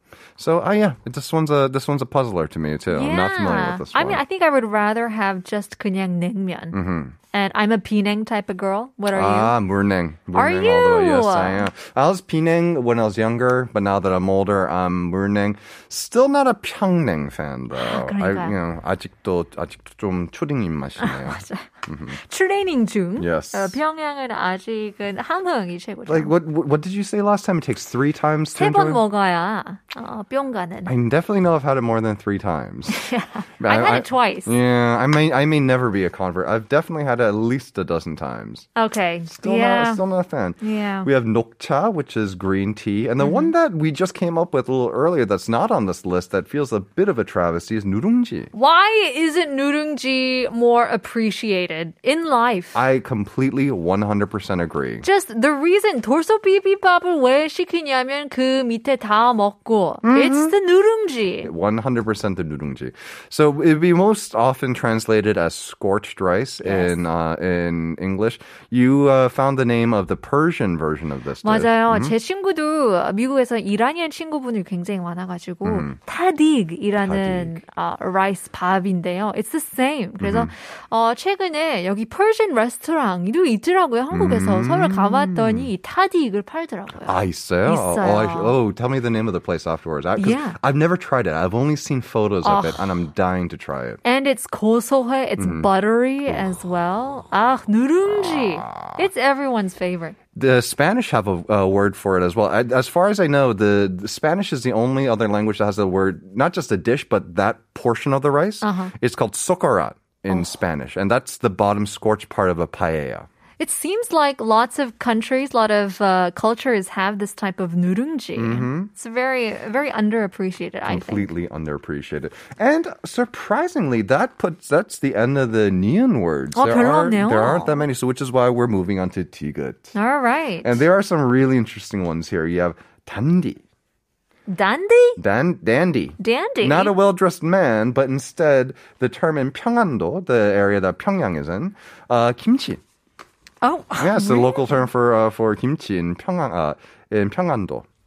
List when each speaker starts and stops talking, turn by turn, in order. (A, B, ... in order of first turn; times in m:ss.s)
0:00.4-0:04.2 A
0:02.9-0:06.8 B
0:06.7-0:07.2 A
0:07.3-0:09.5 B
0:09.1-0:22.2 A
0:10.3-0:11.7 B
0:17.7-0:18.6 B
0:21.0-0:26.3 B
0:23.2-0:23.8 A
0:26.1-0:29.0 A
0:28.5-0:30.9 B
0:30.8-0:33.0 A
0:32.9-0:34.6 B
0:33.6-0:38.7 A
0:38.8-0:40.0 B
0:39.3-0:48.5 A
0:40.6-0:41.1 B
0:43.2-0:43.5 B
0:48.5-0:52.8 B
0:52.7-0:55.0 A
0:55.0-1:01.5 B
1:00.0-1:00.5 A
1:01.4-1:12.1 A
1:06.6-1:07.0 B
1:11.4-1:28.6 B
1:15.6-1:16.0 A
1:17.0-1:17.6 A
1:20.2-1:20.5 A
1:24.1-1:25.7 A
1:27.0-1:34.0 A
1:30.2-1:30.6 B
1:32.4-1:33.0 B
1:34.0-1:40.2 B
1:35.4-1:35.7 A
1:38.0-1:39.1 A
1:40.3-1:53.3 A
1:48.6-1:48.9 B
1:53.6-2:01.2 B
1:58.4-1:58.9 A
2:00.9-2:09.9 A
2:06.5-2:07.9 B
2:09.9-2:10.8 B
2:10.6-2:13.6 A
2:14.5-2:15.2 B
2:15.2-2:22.8 A
2:16.2-2:17.0 B
2:23.6-2:24.8 B
2:24.0-2:27.8 A